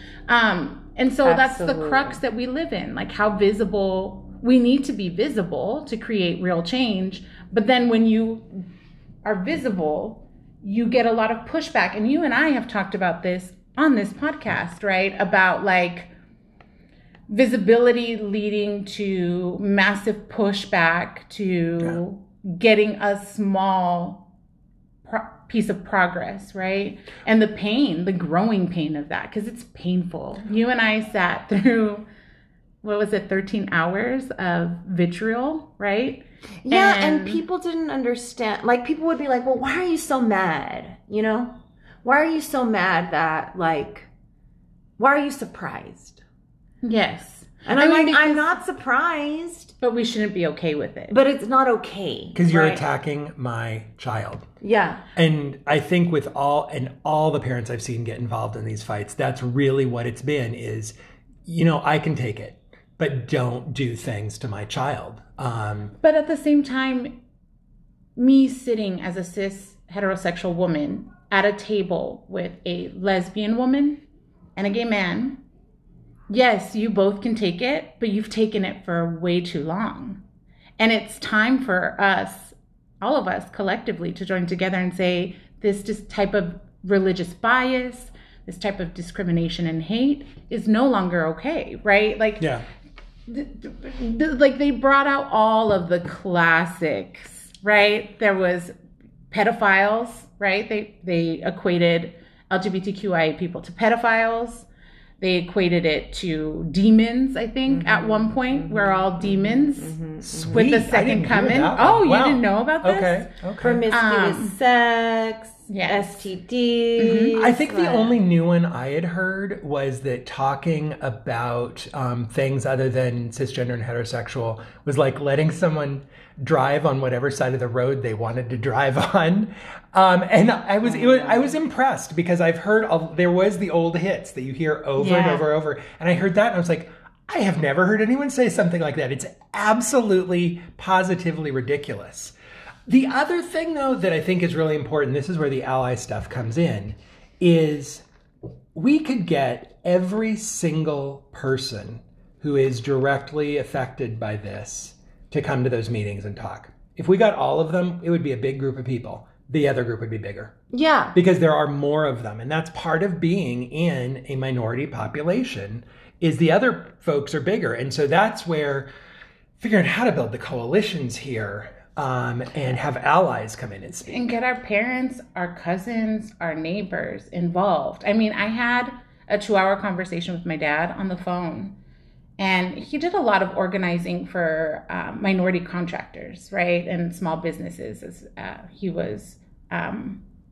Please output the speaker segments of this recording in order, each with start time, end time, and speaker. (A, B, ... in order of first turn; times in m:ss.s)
0:00.3-0:08.7 A
0:01.2-0:02.2 B
0:09.2-0:16.1 A
0:17.3-0:24.2 A
0:25.0-0:32.0 A
0:32.8-0:37.4 A
0:36.6-0:44.1 B
0:45.0-0:46.2 B
0:46.8-0:48.5 A
0:47.6-0:49.7 B
0:49.8-0:51.2 A
0:51.1-0:52.8 B
0:52.3-0:54.5 C
0:54.6-0:55.0 B
0:55.2-1:05.9 C
1:06.0-1:07.2 A
1:08.2-1:14.0 A
1:14.6-1:15.4 A
1:16.3-1:20.2 A
1:20.8-1:32.4 A
1:33.3-1:38.7 A
1:39.3-1:44.7 A
1:45.2-1:50.0 A
1:47.7-1:50.6 B
1:50.2-1:53.8 C
1:50.5-1:53.3 A
1:53.6-1:58.2 B
1:53.9-1:54.6 A
1:55.7-1:56.3 A
1:57.0-1:57.4 A
1:57.4-2:22.3 C
2:10.9-2:11.5 B
2:15.0-2:15.4 A
2:22.9-2:28.0 C
2:28.7-2:40.5 C
2:40.7-2:41.2 B
2:41.1-2:48.9 C
2:49.6-2:54.3 C
2:54.1-3:01.7 A
3:02.4-3:10.2 A